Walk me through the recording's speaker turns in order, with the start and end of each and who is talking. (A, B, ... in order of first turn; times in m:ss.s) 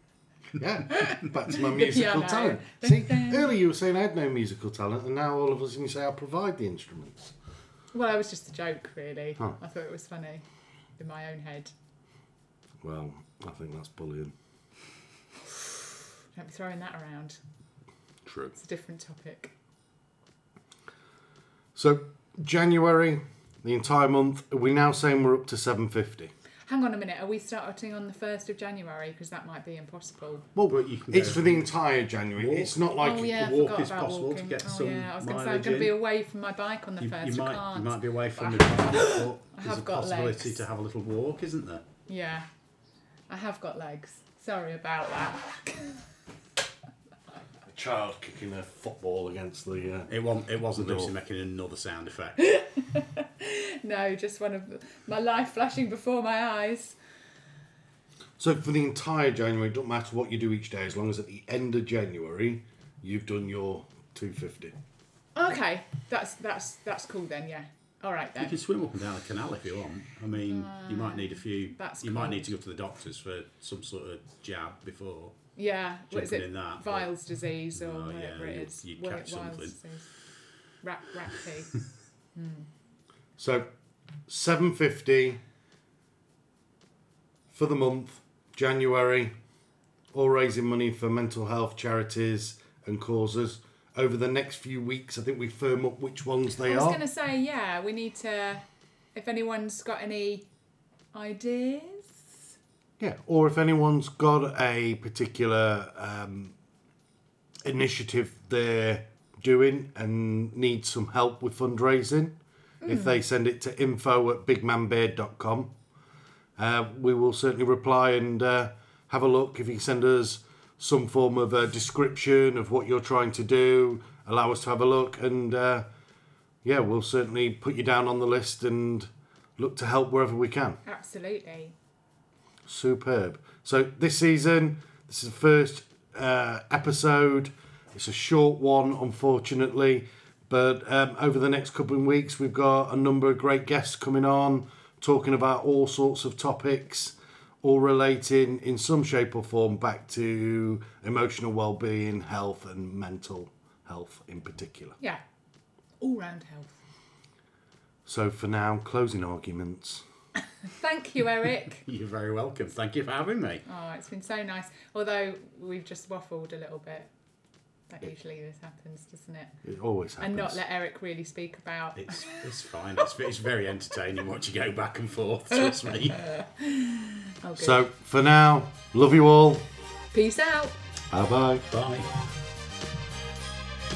0:00.6-0:07.3 A
0:00.9-0:03.6 B
0:07.9-0:10.4 B
0:11.0-0:11.7 B
0:12.8-0:14.3 A
0:16.4-0:17.4 B
0:18.3-0:18.5 A
0:18.5-0:19.5 B
0:21.8-0:26.3 A
0:26.7-0:30.5 B
0:30.6-0:33.5 A
0:30.7-0:31.7 C
0:32.4-0:36.0 C
0:33.0-0:40.6 B
0:37.0-0:41.9 C
0:42.1-0:42.5 B
0:43.3-0:46.0 B
0:47.7-0:50.1 A
0:50.1-0:52.4 C
0:50.8-0:51.1 A
0:52.4-0:57.0 B
0:58.4-1:04.8 A
1:05.4-1:08.6 B
1:08.4-1:15.4 C
1:10.4-1:12.5 B
1:15.6-1:20.1 B
1:16.1-1:17.1 C
1:17.7-1:19.8 C
1:20.8-1:21.8 B
1:22.4-1:22.7 B
1:23.4-1:23.7 A
1:24.3-1:25.4 A
1:27.5-1:29.3 A
1:30.1-1:37.0 A
1:36.7-1:40.5 B
1:41.1-1:42.4 B
1:43.0-1:46.6 A
1:47.6-1:55.7 A
1:52.8-1:53.2 B
1:56.6-2:05.9 A
2:06.6-2:10.8 A
2:10.8-2:11.8 B
2:12.7-2:35.0 A
2:36.0-2:36.8 B
2:38.1-2:40.0 A
2:40.7-2:41.8 B
2:41.8-2:43.6 C
2:43.7-2:47.1 B
2:47.9-2:49.6 B
2:49.6-2:50.6 A
2:50.2-2:52.4 B
2:52.0-2:56.2 C
2:56.1-2:57.8 B
2:57.6-2:59.6 A
3:00.1-3:00.8 B
3:01.1-3:01.6 A
3:01.7-3:02.1 C